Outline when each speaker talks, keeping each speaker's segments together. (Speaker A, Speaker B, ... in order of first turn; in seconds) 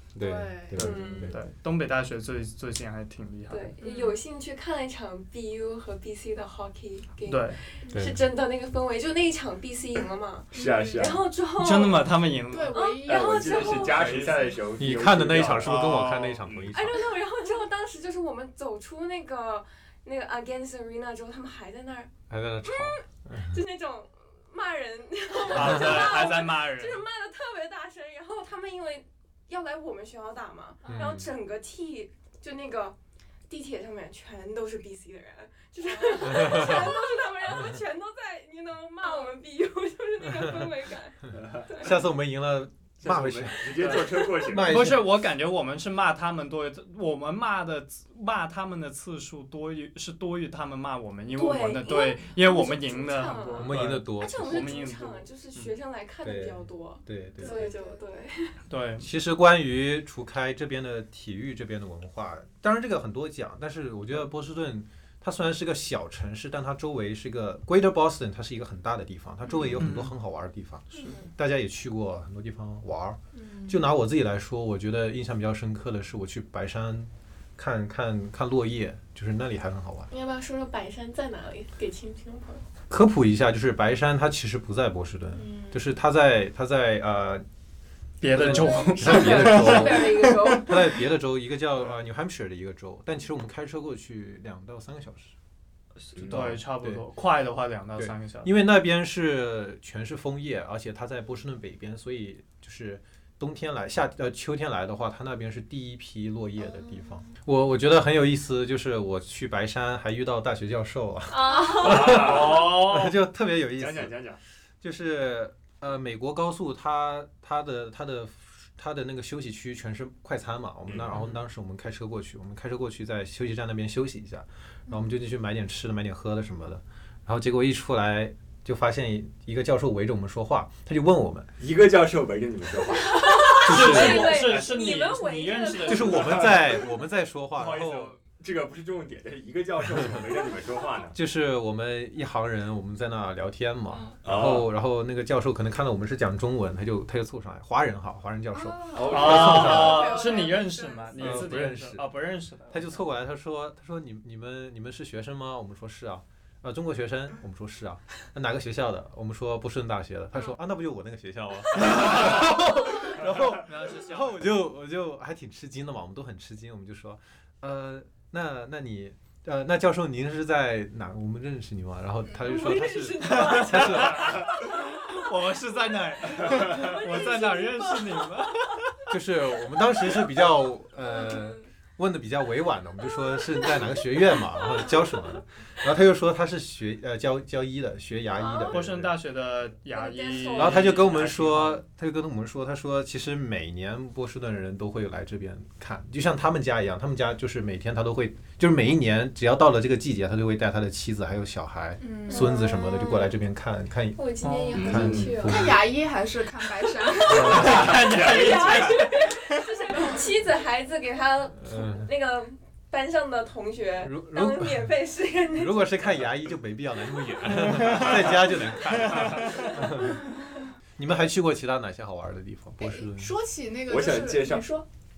Speaker A: 0.1-1.4, 7.9-8.2, 14.8-17.1, 22.3-23.6, 25.6-25.9, 30.8-31.3, 36.3-36.8, 41.7-45.1, 53.6-54.7, 56.2-57.7, 59.0-80.1, 82.9-87.4, 88.3-95.3, 96.2-97.0, 98.0-114.1, 114.8-131.5, 133.6-134.4, 135.8-138.1, 141.1-150.2, 151.2-152.0, 152.7-174.4, 179.1-189.1, 190.6-205.8, 207.3-207.9, 211.6-212.1, 214.0-214.9, 215.5-220.3, 221.0-223.3
Speaker B: 0.2-0.9, 3.8-4.2, 10.5-11.1, 12.5-14.1, 30.8-31.1, 35.9-36.9, 57.4-58.0, 73.3-73.8, 148.5-151.5, 202.0-202.6, 205.4-207.9, 209.9-210.2, 222.8-224.8
Speaker C: 0.8-1.4, 3.5-12.1, 12.7-14.1, 16.7-22.1, 22.6-33.0, 33.5-41.9, 51.3-58.6, 80.1-82.6, 85.3-85.8, 88.4-90.8, 106.6-107.2, 111.3-112.2, 132.9-136.6, 172.4-174.8, 176.4-177.9, 188.3-188.8, 189.9-191.2, 202.3-203.3, 204.1-205.7, 207.1-215.9
Speaker D: 0.8-3.7, 7.3-7.6, 11.6-12.8, 13.7-14.5, 15.6-16.5, 25.5-27.0, 44.6-55.7, 58.7-59.1, 69.8-70.1, 88.2-90.6, 96.1-98.5, 112.1-113.1, 133.6-136.5, 149.1-153.0, 163.6-164.4, 173.2-179.1, 188.7-191.8, 204.4-205.0, 207.3-209.6, 217.7-218.1, 219.1-219.7
Speaker E: 10.5-11.2, 13.0-15.8, 41.3-41.8, 43.0-44.8, 96.2-96.5, 111.8-112.8, 113.8-114.4, 120.9-121.2, 131.6-133.5, 137.5-141.1, 144.2-144.7, 148.9-150.0, 204.7-205.4, 207.3-209.1, 223.9-224.7